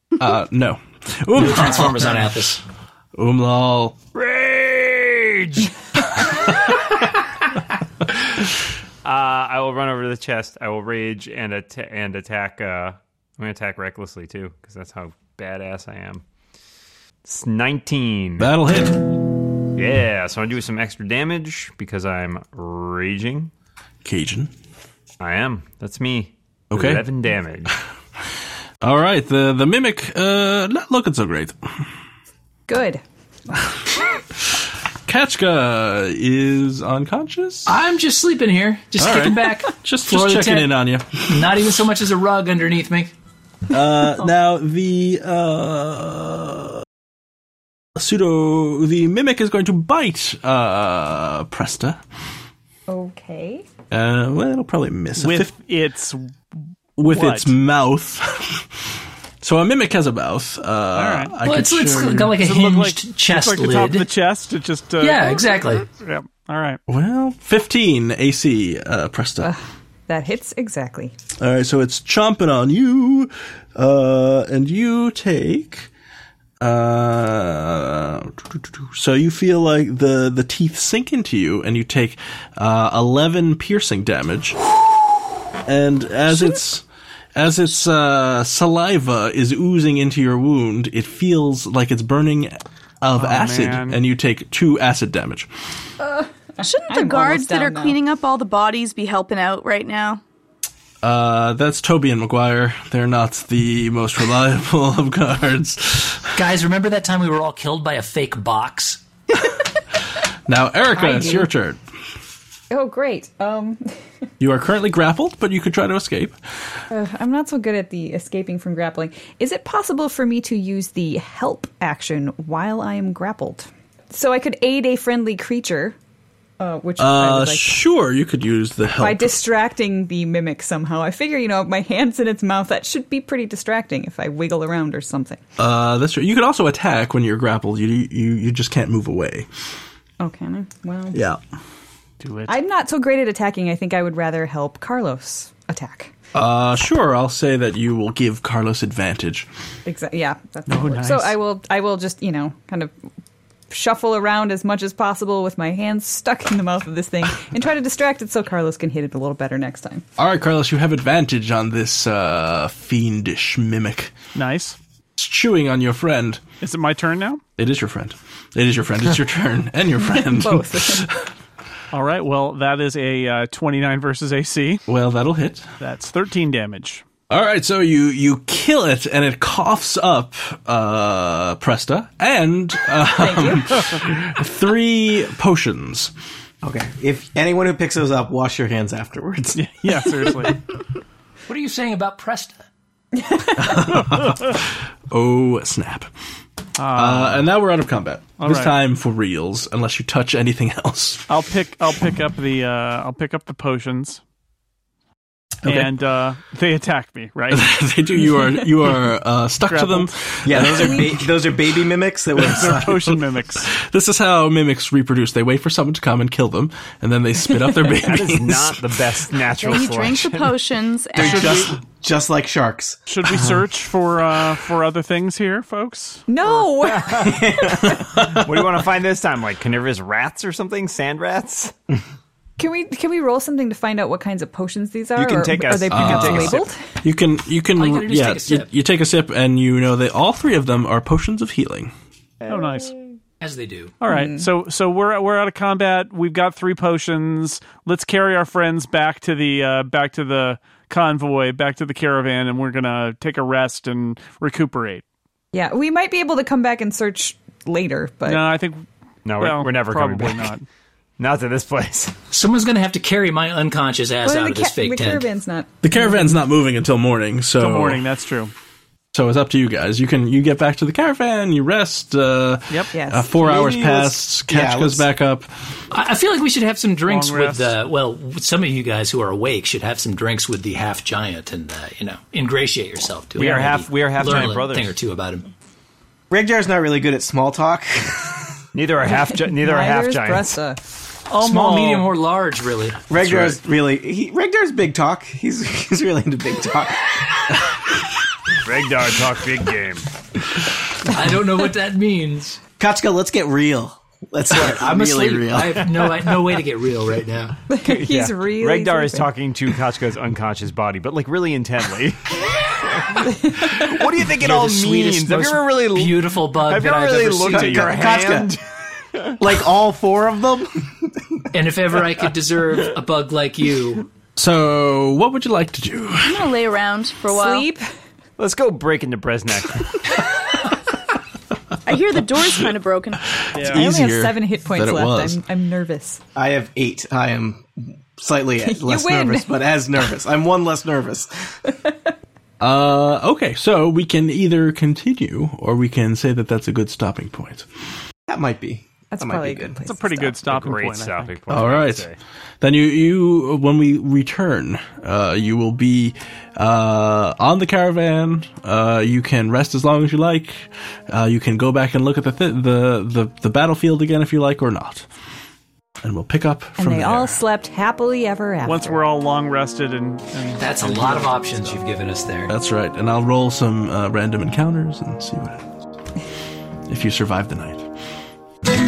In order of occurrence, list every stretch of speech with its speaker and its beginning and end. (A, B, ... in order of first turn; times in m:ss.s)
0:00.2-0:02.3 A
0:01.4-0:02.6 B
0:03.2-0:04.0 A
0:04.2-0:06.5 C
0:09.0-0:16.2 C
0:17.2-0:18.5 C
0:18.4-0:19.1 A
0:19.8-0:23.5 C
0:24.0-0:24.5 A
0:25.2-0:27.7 C
0:26.7-0:27.0 A
0:28.8-0:31.6 A
0:32.7-0:33.0 D
0:35.1-0:37.7 A
0:37.7-0:43.1 B
0:39.0-0:41.6 A
0:43.7-0:46.8 A
0:48.0-0:52.0 A
0:52.9-0:53.6 D
0:53.9-0:55.5 A
0:55.2-0:56.4 E
0:57.0-0:57.5 E
0:57.0-1:02.4 A
1:01.0-1:01.4 E
1:01.4-1:04.1 B
1:02.4-1:06.8 E
1:05.0-1:05.9 B
1:06.9-1:09.5 A
1:09.4-1:11.1 D
1:11.4-1:15.9 A
1:16.6-1:24.6 A
1:25.6-1:35.5 A
1:33.2-1:34.0 E
1:36.0-1:38.0 D
1:36.6-1:40.2 F
1:41.0-1:46.4 A
1:46.3-1:49.0 B
1:50.5-1:51.8 A
1:50.9-1:51.5 D
1:52.7-1:53.8 D
1:54.4-1:56.4 A
1:56.9-2:06.0 D
2:06.6-2:07.8 D
2:07.0-2:09.4 A
2:09.0-2:15.4 D
2:15.6-2:19.5 A
2:20.2-2:21.2 D
2:21.1-2:21.4 A
2:22.2-2:22.5 E
2:22.5-2:26.1 D
2:26.3-2:29.5 A
2:29.9-2:32.9 D
2:30.7-2:31.4 E
2:33.7-2:40.0 D
2:40.2-2:44.2 A
2:44.4-2:44.8 E
2:45.2-2:46.4 A
2:46.6-2:47.4 E
2:47.6-2:51.3 A
2:50.0-2:51.1 D
2:51.9-2:54.8 E
2:54.9-2:55.7 A
2:55.8-2:57.0 E
2:57.3-3:06.1 A
3:03.1-3:03.8 D
3:06.6-3:10.3 G
3:09.6-3:10.6 E
3:11.5-3:12.6 B
3:13.2-3:13.7 D
3:13.5-3:16.1 A
3:16.8-3:17.5 E
3:16.9-3:21.3 A
3:18.4-3:18.8 E
3:21.3-3:24.2 E
3:25.6-3:27.7 E
3:27.5-3:31.3 A
3:29.7-3:30.3 E
3:30.4-3:33.1 G
3:32.4-3:33.7 E
3:32.4-3:38.9 A
3:38.0-3:40.6 C
3:39.6-3:41.7 F
3:41.2-3:43.7 G
3:41.2-3:41.7 E
3:43.1-3:46.2 E
3:46.3-3:47.4 D
3:46.8-3:47.4 C
3:47.2-3:48.4 G
3:48.1-3:51.7 C
3:52.6-3:56.8 D
3:55.2-3:56.7 C
3:55.9-4:01.9 A
3:57.8-3:58.7 B
4:02.4-4:03.1 C
4:02.5-4:03.0 E
4:03.4-4:03.9 B
4:04.0-4:15.0 E
4:04.1-4:04.5 D
4:15.5-4:18.5 D
4:18.3-4:20.7 E
4:19.3-4:20.5 C
4:21.2-4:22.2 C
4:22.3-4:25.3 B
4:24.2-4:26.3 D
4:25.8-4:28.0 A
4:27.6-4:28.5 E
4:29.1-4:35.5 A
4:32.9-4:33.8 D
4:33.8-4:35.1 G
4:35.9-4:45.5 B
4:37.1-4:37.8 E
4:43.4-4:44.9 C
4:43.4-4:43.8 E
4:46.3-4:48.4 G
4:48.7-4:50.6 C
4:49.1-4:50.8 D
4:51.3-4:52.1 E
4:51.4-4:53.6 B
4:53.1-4:57.6 G
4:58.6-5:00.1 C
5:01.0-5:02.6 B
5:02.8-5:05.9 G
5:04.5-5:07.6 B
5:07.7-5:09.3 D
5:07.8-5:18.6 C
5:13.2-5:14.0 D
5:14.4-5:18.0 B
5:17.5-5:18.6 G
5:19.4-5:20.8 G
5:21.5-5:24.1 B
5:24.4-5:26.5 A
5:26.2-5:27.7 F
5:27.3-5:27.9 D
5:28.4-5:30.2 C
5:31.8-5:33.4 F
5:33.5-5:33.8 E
5:33.6-5:35.4 A
5:33.6-5:36.2 D
5:36.4-5:41.3 G
5:38.6-5:39.5 D
5:42.6-5:47.7 A
5:48.3-5:49.8 G
5:49.1-5:50.4 D
5:49.8-5:51.4 E
5:50.4-5:52.2 C
5:51.5-5:52.1 A
5:52.6-6:05.1 A
6:06.0-6:07.4 A
6:06.8-6:09.0 D
6:08.6-6:11.8 E
6:10.6-6:12.6 B
6:12.5-6:15.7 A
6:16.9-6:17.9 A